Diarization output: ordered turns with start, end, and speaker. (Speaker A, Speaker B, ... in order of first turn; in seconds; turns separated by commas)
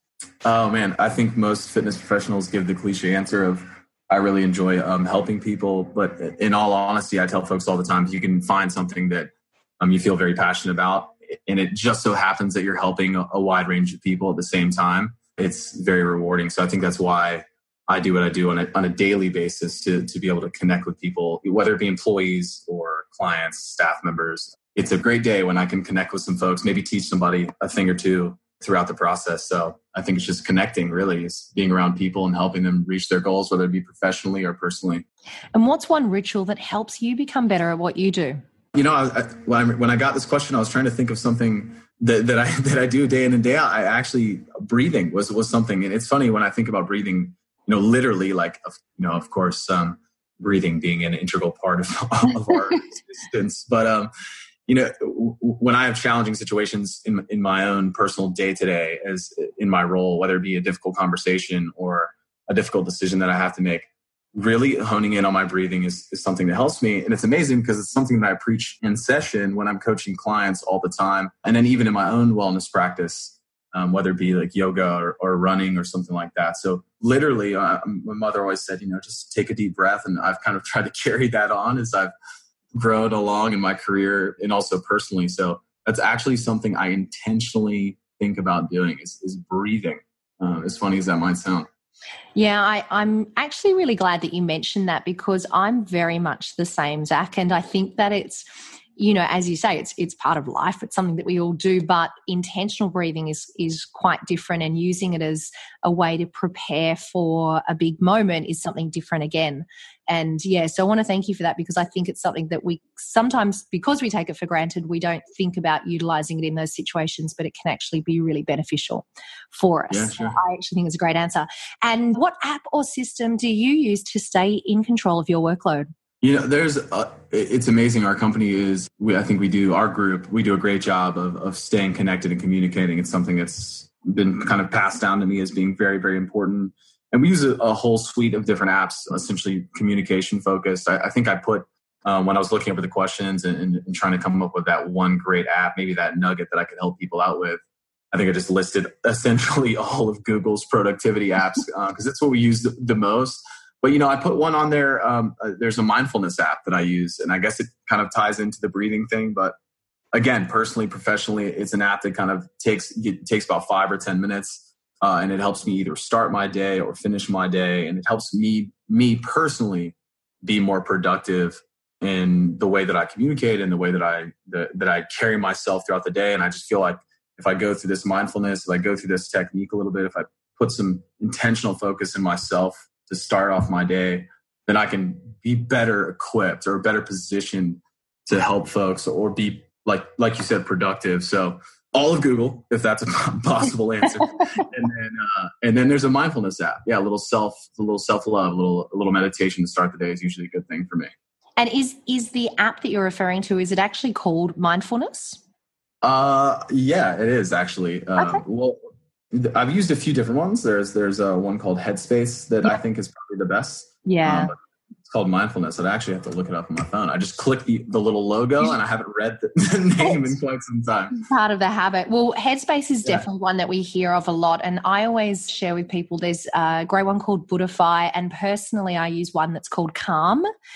Speaker A: 0.4-35.0, Speaker B: 35.5-38.4, Speaker A: 38.8-54.1, Speaker A: 54.7-82.1, Speaker A: 82.8-91.7, Speaker B: 92.3-98.5, Speaker B: 99.0-125.9, Speaker A: 119.9-120.4, Speaker A: 126.2-159.6, Speaker A: 160.1-201.1, Speaker B: 201.6-205.4, Speaker A: 206.0-208.8, Speaker A: 209.3-214.6, Speaker B: 214.1-214.5, Speaker A: 215.1-221.2, Speaker B: 220.0-220.3, Speaker B: 221.2-230.5